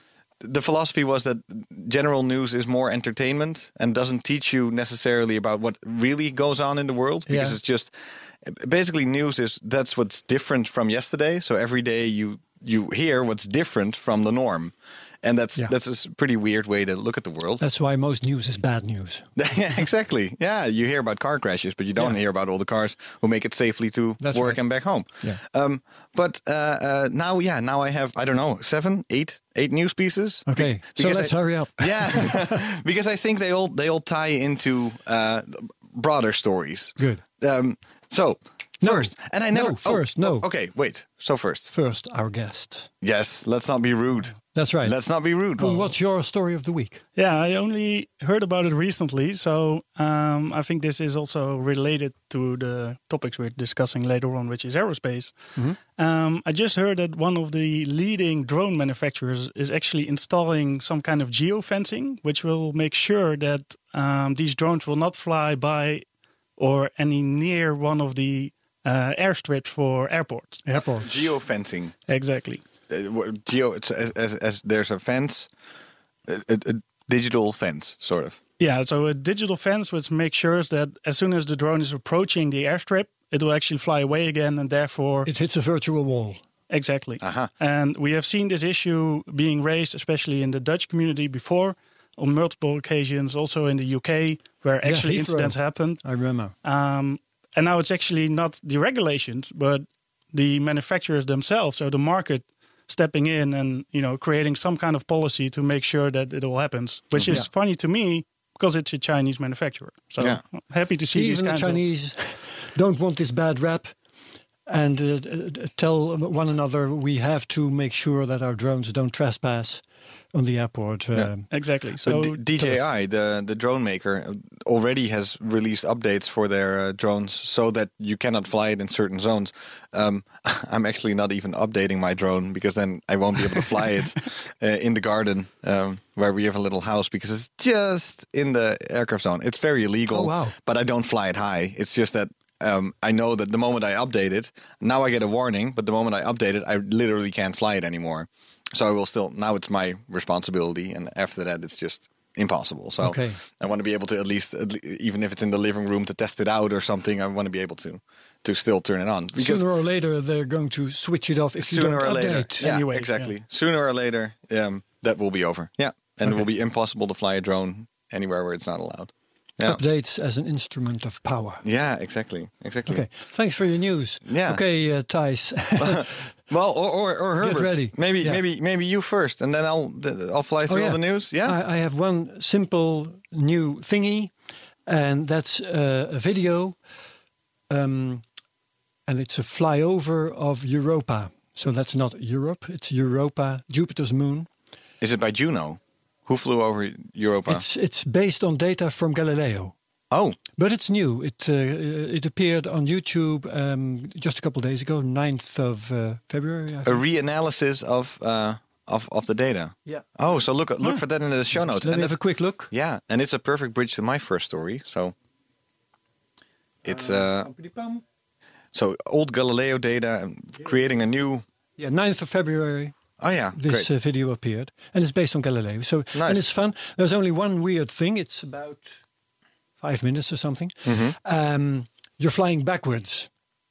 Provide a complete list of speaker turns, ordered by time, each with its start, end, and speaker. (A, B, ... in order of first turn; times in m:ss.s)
0:00.4-0:17.6 A
0:07.3-0:07.6 B
0:17.6-0:19.2 B
0:19.4-0:41.7 A
0:24.2-0:24.6 B
0:30.5-0:32.6 B
0:38.8-0:40.5 B
0:41.7-0:42.9 B
0:43.0-0:46.0 A
0:44.5-0:45.0 B
0:45.6-0:47.0 B
0:47.2-1:06.0 C
1:06.6-1:10.6 C
1:10.6-1:11.1 B
1:11.0-1:11.9 A
1:12.1-1:12.6 C
1:12.9-1:15.5 A
1:16.3-1:18.4 A
1:18.6-1:25.3 C
1:25.2-1:26.4 B
1:26.7-1:36.0 C
1:27.2-1:27.5 A
1:34.8-1:36.5 B
1:36.6-1:51.8 C
1:51.1-1:53.9 B
1:54.7-2:01.5 B
2:01.5-2:02.4 C
2:02.0-2:39.7 A
2:02.6-2:02.8 B
2:20.1-2:20.6 B
2:33.0-2:33.4 B
2:39.4-2:42.7 B
2:41.6-2:49.8 A
2:42.5-2:43.3 C
2:49.6-2:51.6 B
2:51.6-2:53.0 A
2:52.9-2:56.2 B
2:54.2-2:54.6 A
2:55.8-3:01.6 A
2:57.4-2:58.4 B
3:00.7-3:04.3 B
3:04.9-3:06.8 B
3:07.7-3:08.2 B
3:09.1-3:14.5 B
3:15.0-3:17.6 A
3:17.5-3:19.7 B
3:20.1-3:20.4 A
3:20.6-3:27.0 B
3:26.8-3:35.1 A
3:31.5-3:32.7 B
3:36.8-3:37.5 A
3:36.8-3:38.0 B
3:38.7-3:41.4 A
3:41.8-3:43.0 B
3:43.2-3:43.9 A
3:43.6-3:49.0 B
3:46.1-3:46.5 A
3:49.8-3:53.3 B
3:50.8-3:51.1 A